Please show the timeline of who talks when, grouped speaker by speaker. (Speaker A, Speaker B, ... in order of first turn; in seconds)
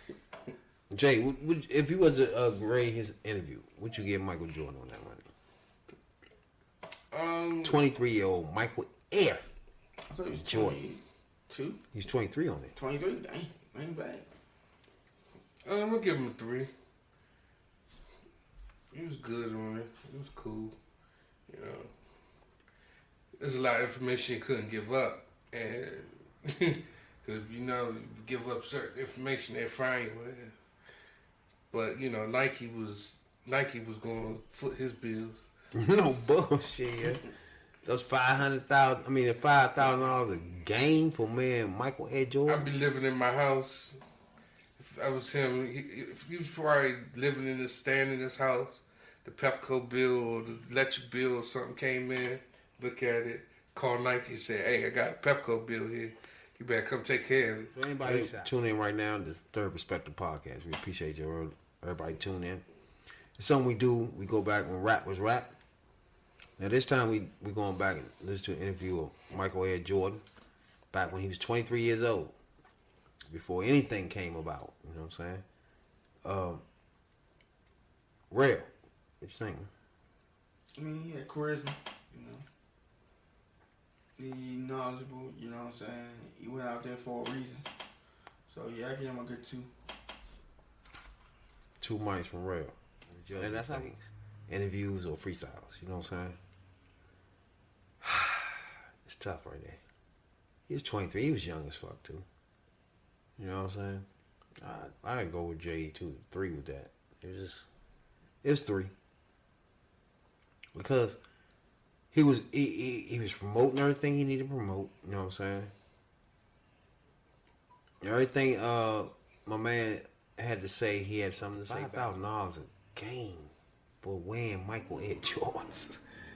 Speaker A: 0.9-5.3, 7.6-9.4, 10.3-10.8, 11.9-12.7, 35.7-37.3, 37.9-42.7, 57.7-62.6, 63.4-65.5, 66.6-70.2, 70.9-72.3, 73.3-75.4, 76.2-76.6, 78.3-78.7, 79.2-79.7, 91.8-92.8, 93.3-96.4, 98.0-99.8, 100.7-102.3, 103.4-104.1, 104.6-107.7, 108.4-108.9, 110.8-111.2, 112.1-115.7, 118.0-126.0
Speaker B: 7.1-7.8, 15.7-16.7, 18.9-20.8, 21.5-21.9, 23.4-30.5, 31.7-35.5, 42.5-44.0, 44.8-58.5
Speaker C: 10.1-11.8, 12.8-14.3, 80.8-82.5, 84.2-87.7, 88.5-89.7